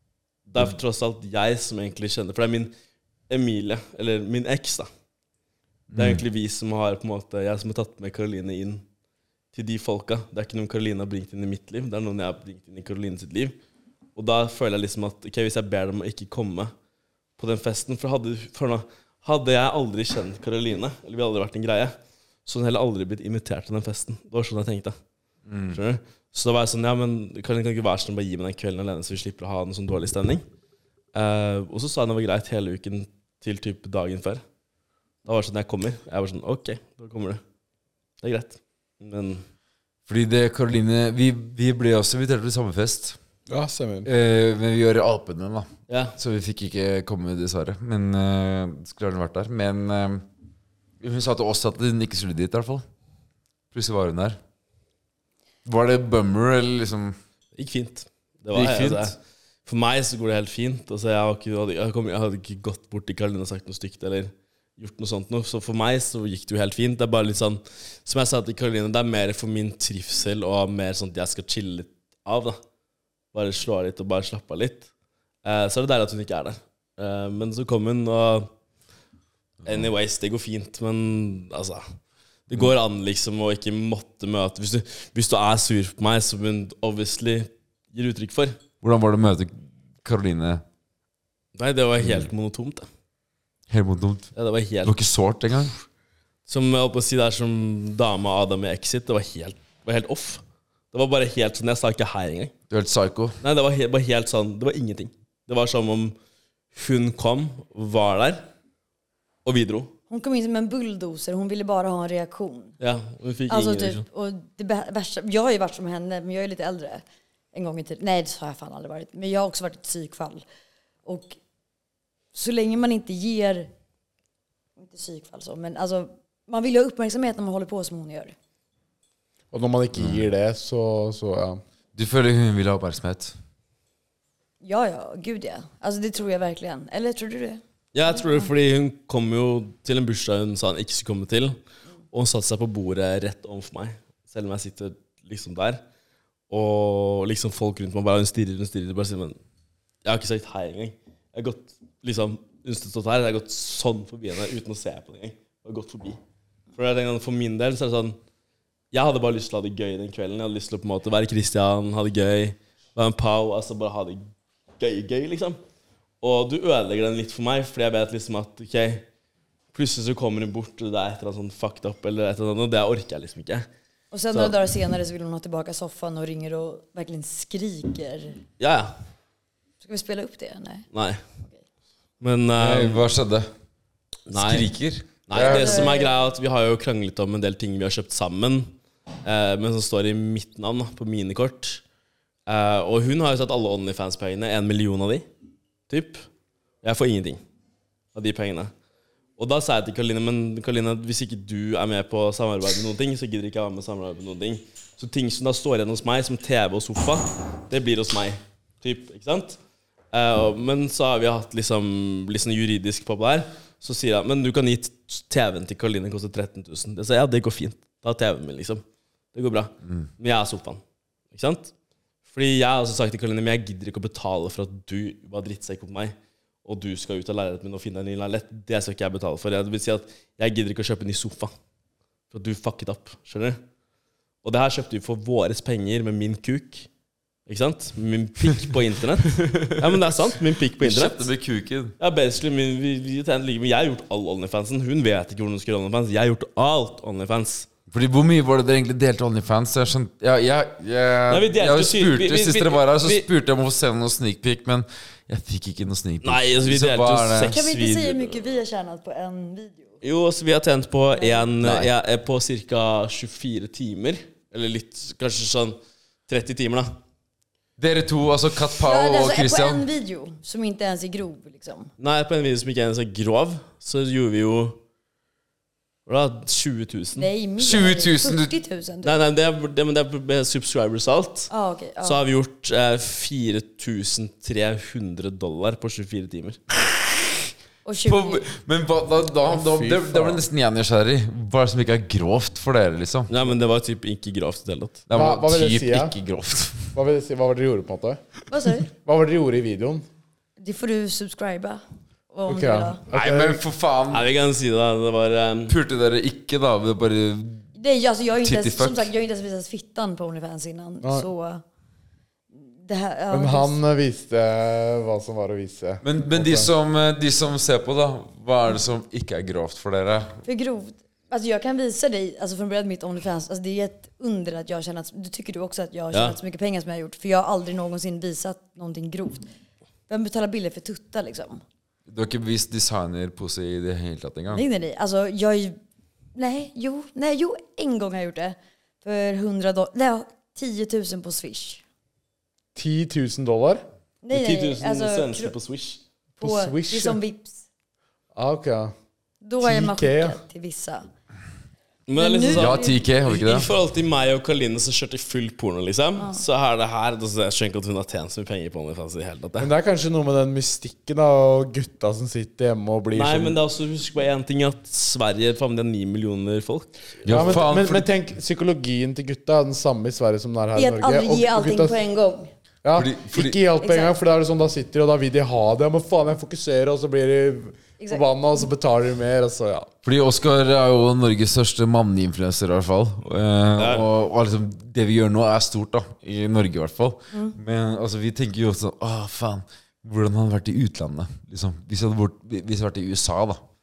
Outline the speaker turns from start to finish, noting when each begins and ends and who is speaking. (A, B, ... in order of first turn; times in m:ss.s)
0:00.5-0:02.7 A
0:03.3-0:04.9 A
0:05.9-0:06.2 B
0:06.0-0:08.8 A
0:09.5-0:13.6 A
0:14.2-0:16.7 A
0:17.4-0:21.9 A
0:22.4-0:25.0 A
0:25.5-0:25.8 B
0:25.7-0:30.4 A
0:31.1-0:34.4 A
0:35.2-0:37.4 A
0:38.2-0:39.4 A
0:40.1-0:43.2 B
0:43.5-0:44.1 C
0:44.0-0:50.2 B
0:45.9-0:46.2 A
0:51.0-0:52.8 B
0:53.7-0:54.4 B
0:55.6-0:57.2 B
0:57.6-1:12.6 A
0:58.5-0:59.1 B
1:13.3-1:14.9 A
1:15.4-1:18.5 A
1:19.6-1:21.8 A
1:22.5-1:28.6 A
1:28.8-1:30.6 B
1:31.6-1:32.9 A
1:32.0-1:32.3 B
1:33.7-1:34.3 B
1:34.3-1:35.0 A
1:34.8-1:35.7 B
1:36.5-1:42.5 A
1:42.7-1:43.4 B
1:43.4-1:46.2 A
1:46.7-1:48.4 A
1:49.4-1:49.9 A
1:50.1-1:52.7 D
1:52.8-1:54.0 A
1:53.5-2:00.4 D
2:01.0-2:01.4 D
2:02.3-2:03.7 D
2:04.8-2:08.3 D
2:09.5-2:11.6 C
2:10.0-2:10.2 B
2:11.9-2:13.3 B
2:14.6-2:17.6 D
2:17.9-2:21.6 A
2:22.1-2:25.8 A
2:26.5-2:29.4 A
2:30.0-2:36.2 A
2:36.8-2:38.2 A
2:38.9-2:44.2 A
2:44.8-2:45.6 A
2:46.2-2:49.0 A
2:49.7-2:53.7 A
2:54.1-2:58.4 D
2:54.3-2:54.6 A
2:58.6-2:58.9 A
2:59.8-3:00.8 D
3:00.9-3:01.2 A
3:02.2-3:03.0 A
3:02.6-3:03.5 B
3:04.3-3:04.7 A
3:04.3-3:05.9 B
3:05.3-3:08.7 A
3:05.3-3:06.2 D
3:09.2-3:11.8 A
3:12.5-3:15.2 A
3:15.9-3:16.2 A
3:16.8-3:17.4 A
3:18.1-3:18.7 A
3:19.4-3:29.6 A
3:30.1-3:38.8 A
3:39.3-3:40.8 A
3:41.3-3:41.7 A
3:42.3-3:51.5 A
3:52.3-3:53.6 A
3:54.4-3:56.9 A
3:57.4-4:01.3 A
3:59.4-4:00.1 B
4:00.8-4:01.9 B
4:02.0-4:07.7 A
4:07.9-4:17.6 B
4:11.3-4:13.3 A
4:16.2-4:18.6 A
4:17.5-4:20.0 D
4:20.0-4:25.8 A
4:21.1-4:21.5 D
4:21.6-4:21.9 B
4:26.3-4:26.9 A
4:27.8-4:29.8 B
4:28.8-4:31.9 D
4:32.0-4:34.8 A
4:36.0-4:37.3 A
4:37.2-4:39.2 D
4:37.6-4:38.5 B
4:39.0-4:41.5 A
4:41.5-4:42.2 D
4:42.0-4:46.6 A
4:47.8-4:48.4 D
4:48.0-4:53.3 B
4:49.5-4:50.4 C
4:53.3-4:55.0 A
4:55.1-4:56.9 B
4:55.1-4:56.1 C
4:56.9-4:58.2 C
4:58.5-4:58.9 D
4:58.9-5:00.0 C
5:00.6-5:03.0 D
5:02.5-5:03.6 C
5:03.1-5:04.3 B
5:04.1-5:05.8 A
5:05.7-5:07.6 B
5:07.8-5:11.6 D
5:08.4-5:09.1 B
5:11.0-5:11.3 C
5:12.6-5:13.8 D
5:13.3-5:16.7 C
5:16.0-5:20.4 B
5:20.4-5:29.5 D
5:26.1-5:26.4 A
5:30.1-5:31.6 D
5:32.1-5:34.6 B
5:34.5-5:35.8 D
5:36.3-5:41.8 D
5:42.7-5:43.8 C
5:44.2-5:45.5 D
5:44.3-5:46.0 A
5:46.4-5:47.2 C
5:46.4-5:47.6 D
5:48.3-5:48.9 C
5:49.4-5:51.1 D
5:49.6-5:50.4 C
5:52.1-5:59.7 A
5:52.2-5:53.0 D
5:52.5-5:53.7 B
5:59.6-6:03.6 C
6:03.1-6:07.6 A
6:07.2-6:08.1 B
6:07.3-6:12.0 C
6:10.7-6:12.5 D
6:12.8-6:19.9 C
6:12.9-6:13.6 B
6:13.8-6:14.1 D
6:20.0-6:33.6 B
6:23.8-6:24.0 A